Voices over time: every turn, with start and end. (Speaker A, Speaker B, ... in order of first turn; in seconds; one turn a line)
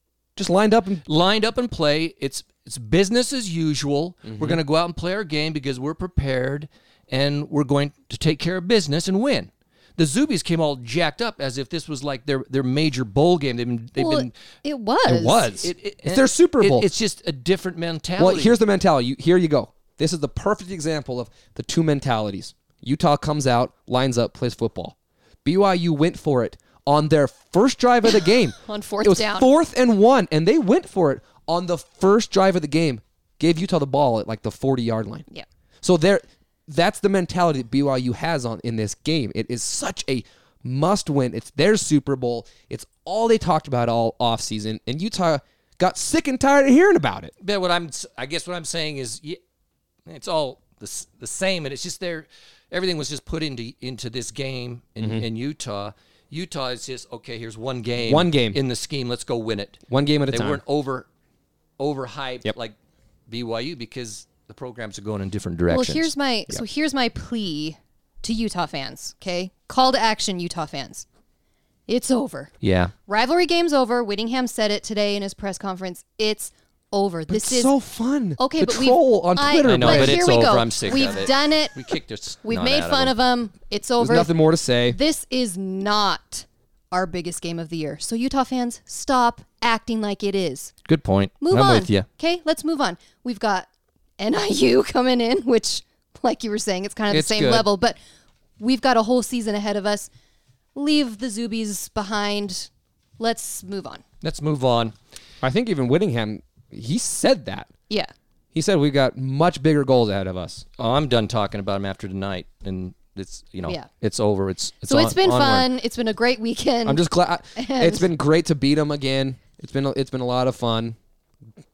Speaker A: 0.3-1.0
Speaker B: 1.1-14.3
Speaker A: 4.3-4.6
Speaker C: 14.0-15.5
Speaker A: 15.0-16.9
Speaker B: 15.6-18.5
Speaker A: 18.2-35.2
Speaker C: 28.6-29.5
Speaker A: 35.8-47.3
Speaker B: 47.4-49.4
Speaker B: 50.1-61.1
Speaker A: 55.0-55.2
Speaker A: 58.0-58.6
Speaker A: 59.9-60.6
Speaker B: 61.8-62.7
Speaker B: 63.3-66.1
Speaker C: 65.7-71.0
Speaker C: 71.9-72.5
Speaker B: 72.6-72.9
Speaker C: 73.1-77.7
Speaker A: 77.3-80.5
Speaker C: 78.4-81.9
Speaker B: 79.6-83.1
Speaker C: 82.4-90.7
Speaker A: 84.0-85.0
Speaker B: 90.8-92.1
Speaker C: 91.4-98.0
Speaker B: 97.1-97.7
Speaker C: 98.6-100.1
Speaker C: 100.7-104.0
Speaker B: 104.2-104.9
Speaker A: 105.4-107.7
Speaker A: 108.5-110.6
Speaker B: 110.8-115.7
Speaker C: 114.9-117.0
Speaker A: 116.8-121.0
Speaker C: 117.5-118.1